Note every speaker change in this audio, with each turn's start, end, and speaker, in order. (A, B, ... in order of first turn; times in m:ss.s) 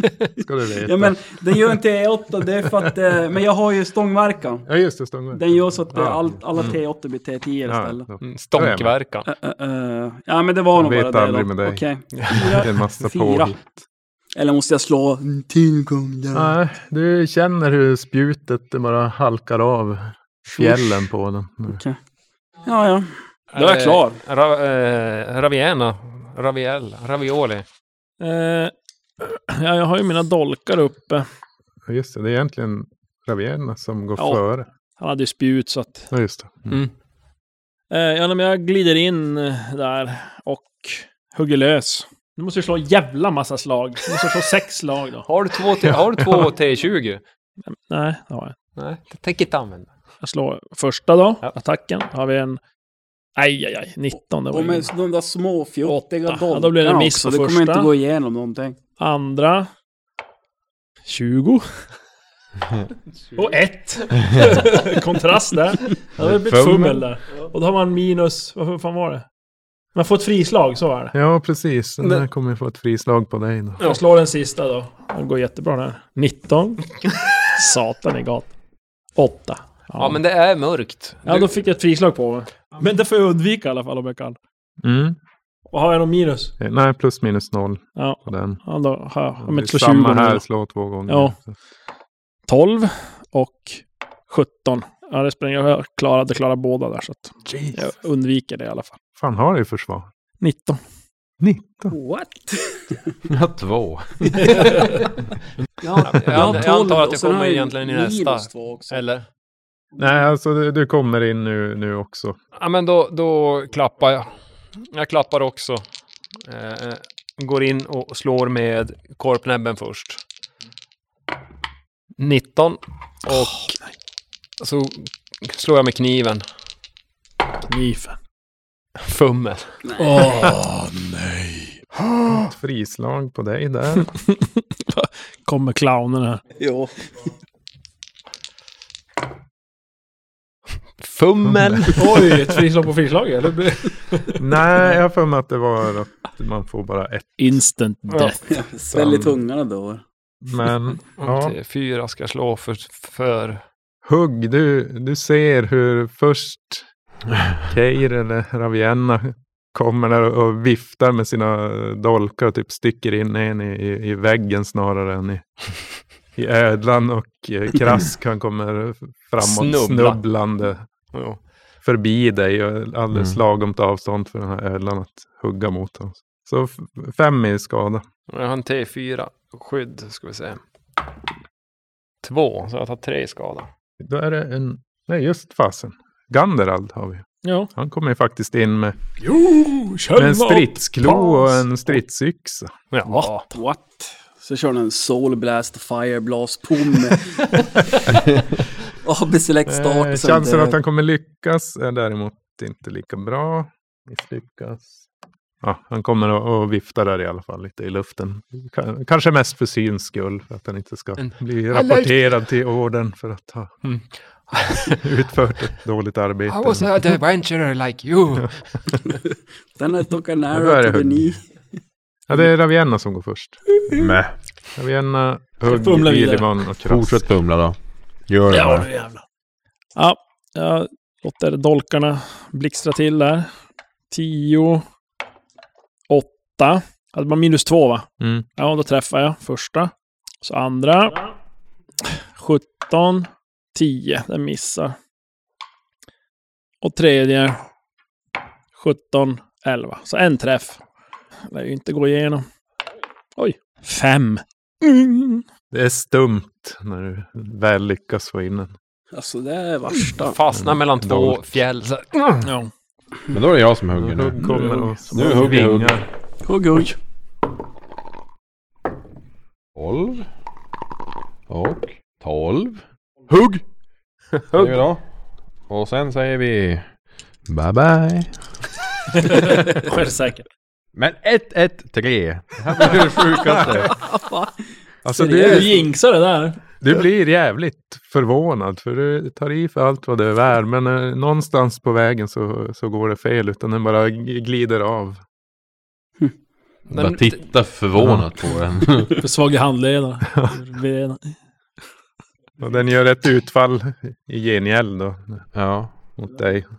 0:00.4-0:01.2 A
0:00.8-0:04.7 B
0:04.7-0:06.8 A
0:05.3-0:08.1 B
0:07.7-0:08.9 A
0:08.2-0:09.3 C
0:09.3-0:13.6 B
0:10.8-0:13.7 A
0:14.4-0:16.6 B
0:16.3-0:21.8 A
0:20.5-0:21.0 B
0:21.7-0:22.0 B
0:22.6-0:24.2 B
0:23.5-0:27.6 C
0:28.2-0:31.3 D
0:31.9-0:34.7 A
0:34.2-0:34.4 D
0:35.0-0:36.1 D
0:36.1-0:36.8 A
0:37.9-0:45.3 D
0:45.3-0:47.2 C
0:47.7-0:48.6 D
0:48.8-0:49.9 C
0:50.2-0:52.6 D
0:53.4-0:54.9 D
0:54.5-0:58.8 B
0:55.9-0:57.9 D
0:59.0-0:59.7 D
1:01.1-1:01.8 D
1:03.4-1:09.2 D
1:06.2-1:07.0 E
1:10.0-1:11.2 D
1:11.1-1:13.8 A
1:13.8-1:18.5 D
1:19.2-1:20.2 D
1:20.0-1:21.5 C
1:21.3-1:24.4 D
1:24.8-1:25.2 A
1:25.7-1:26.5 D
1:26.6-1:28.6 A
1:28.0-1:30.4 D
1:29.4-1:31.4 A
1:31.1-1:31.4 D
1:32.5-1:39.0 D
1:37.5-1:37.8 A
1:39.2-1:40.1 A
1:40.4-1:40.8 D
1:41.4-1:41.9 A
1:41.9-1:43.0 B
1:43.3-1:44.7 E
1:44.5-1:44.8 B
1:45.8-1:49.0 B
1:46.0-1:49.2 C
1:50.0-1:52.4 A
1:52.6-1:55.8 C
1:56.4-2:00.2 C
2:02.2-2:03.7 C
2:03.3-2:03.7 D
2:04.6-2:06.4 C
2:07.7-2:08.2 D
2:09.0-2:09.8 C
2:09.9-2:10.3 B
2:10.0-2:12.4 D
2:12.3-2:14.1 A
2:14.0-2:16.4 D
2:16.6-2:17.3 B
2:21.0-2:22.4 C
2:21.4-2:21.9 A
2:22.0-2:24.4 D
2:24.4-2:27.6 A
2:27.4-2:28.4 D
2:28.4-2:30.0 B
2:28.9-2:29.4 A
2:30.4-2:31.6 A
2:31.2-2:33.6 C
2:34.0-2:36.9 A
2:37.6-2:45.7 A
2:46.4-2:50.9 A
2:49.4-2:50.2 C
2:51.1-2:51.4 C
2:51.8-2:58.0 A
2:53.1-2:53.4 E
2:58.3-3:00.6 C
3:02.2-3:03.7 C
3:04.0-3:09.0 A
3:07.4-3:07.7 D
3:09.2-3:11.7 D
3:10.1-3:12.8 A
3:12.9-3:13.5 C
3:13.1-3:13.4 D
3:13.5-3:17.3 B
3:18.9-3:20.8 B
3:19.7-3:25.1 A
3:25.6-3:34.0 A
3:31.2-3:32.2 C
3:34.5-3:35.0 C
3:34.8-3:37.1 A
3:36.5-3:38.9 C
3:39.8-3:41.4 B
3:40.5-3:41.4 A
3:42.3-3:43.6 A
3:43.9-3:44.4 E
3:44.8-3:47.2 A
3:45.6-3:46.5 D
3:46.8-3:48.9 E
3:48.5-3:49.2 D
3:50.0-3:53.5 D
3:54.1-3:54.8 D
3:56.1-4:01.3 D
3:58.2-3:58.4 A
4:02.0-4:05.0 D
4:06.8-4:07.6 D
4:08.8-4:10.8 D
4:11.5-4:12.5 D
4:13.4-4:15.4 D
4:15.7-4:18.7 A
4:19.1-4:20.4 B
4:20.2-4:22.4 C
4:20.5-4:21.6 A
4:22.4-4:22.7 D
4:23.3-4:26.0 E
4:24.0-4:26.0 A
4:26.4-4:27.0 B
4:29.8-4:30.3 E
4:31.5-4:33.6 E
4:34.5-4:34.8 C
4:34.5-4:35.1 E
4:35.7-4:36.9 E
4:37.5-4:38.4 E
4:39.2-4:40.5 D
4:41.0-4:44.1 E
4:43.9-4:44.6 B
4:45.0-4:45.9 A
4:45.1-4:45.7 B
4:45.3-4:46.6 D
4:46.8-4:55.2 A
4:56.9-4:57.4 C
4:56.9-4:59.3 E
4:58.0-4:58.3 A
4:59.1-5:01.4 D
5:02.6-5:05.5 A
5:05.5-5:06.0 E
5:06.2-5:06.7 A